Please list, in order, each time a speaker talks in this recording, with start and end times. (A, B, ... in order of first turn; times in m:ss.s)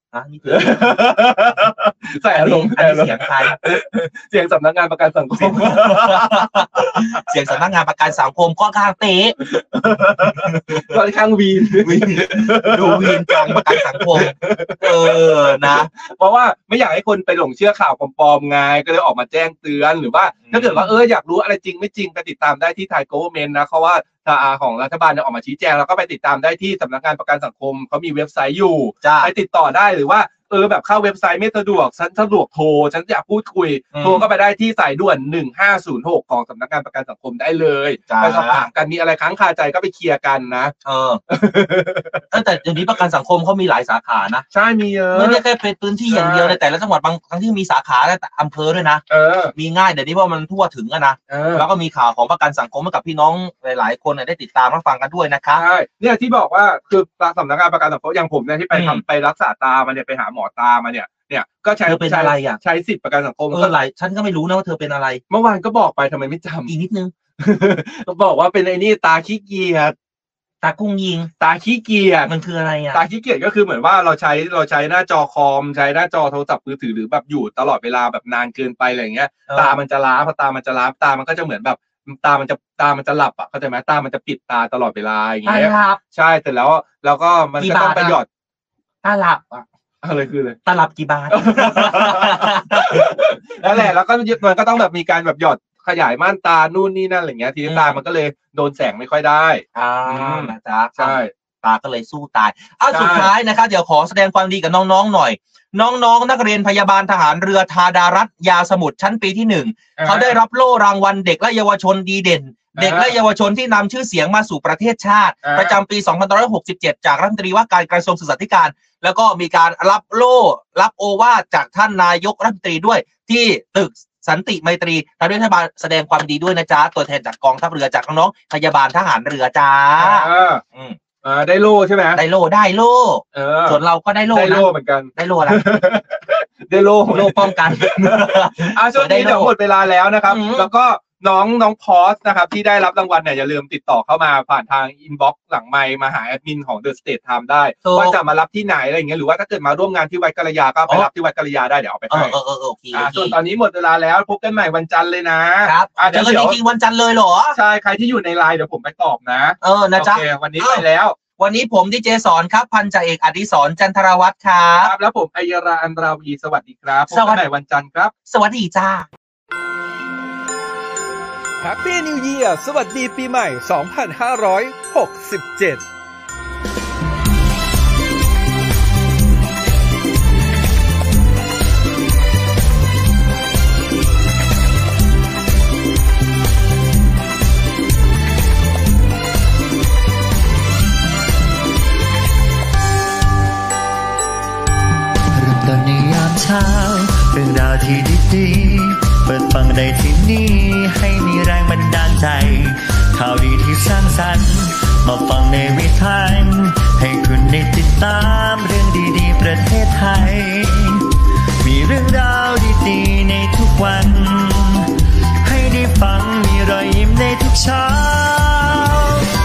0:00.1-0:01.0 A
0:00.5-0:07.2 B
0:02.2-0:03.6 A
0:05.4-0:09.3 A
0:09.4-0:40.7 B
0:10.4-0:10.8 A
0:11.8-0:15.9 A
0:20.5-0:20.9 A
0:29.0-0:29.3 A
0:33.9-0:34.2 A
0:38.1-0:38.6 A
0:40.8-0:41.2 A
0:41.3-0:42.4 B
0:42.3-0:44.4 A
0:44.5-0:45.4 B
0:45.1-0:55.6 A
0:46.1-0:46.6 B
0:49.1-0:49.5 B
0:51.3-0:51.7 B
0:55.5-1:03.7 B
0:58.7-0:59.0 A
1:01.8-1:02.6 A
1:03.5-1:05.2 A
1:05.3-1:06.7 B
1:06.7-1:07.1 A
1:07.4-1:09.9 B
1:10.6-1:11.3 A
1:11.4-1:12.3 B
1:12.3-1:13.0 A
1:12.9-1:28.2 B
1:19.5-1:19.8 A
1:25.4-1:26.0 A
1:27.6-1:28.2 A
1:29.0-1:29.6 A
1:30.0-1:30.6 B
1:30.6-1:33.1 A
1:31.3-1:41.3 B
1:37.7-1:38.0 A
1:39.7-2:11.0 A
1:42.9-1:43.3 B
1:50.0-1:50.4 B
1:52.8-1:53.2 B
1:55.4-1:55.8 B
2:10.0-2:10.6 B
2:11.2-2:12.2 B
2:12.1-2:15.6 A
2:13.3-2:13.8 B
2:14.3-2:32.4 B
2:17.1-2:19.5 A
2:20.3-2:20.7 A
2:27.8-2:28.2 A
2:32.1-2:33.4 A
2:32.9-2:36.6 B
2:35.6-2:37.6 A
2:37.5-2:41.2 B
2:39.6-2:40.8 A
2:41.4-2:44.9 A
2:44.8-2:48.1 B
2:47.1-2:47.5 A
2:48.3-2:49.1 A
2:51.6-2:55.8 C
3:15.3-3:34.9 D
3:35.4-3:39.2 D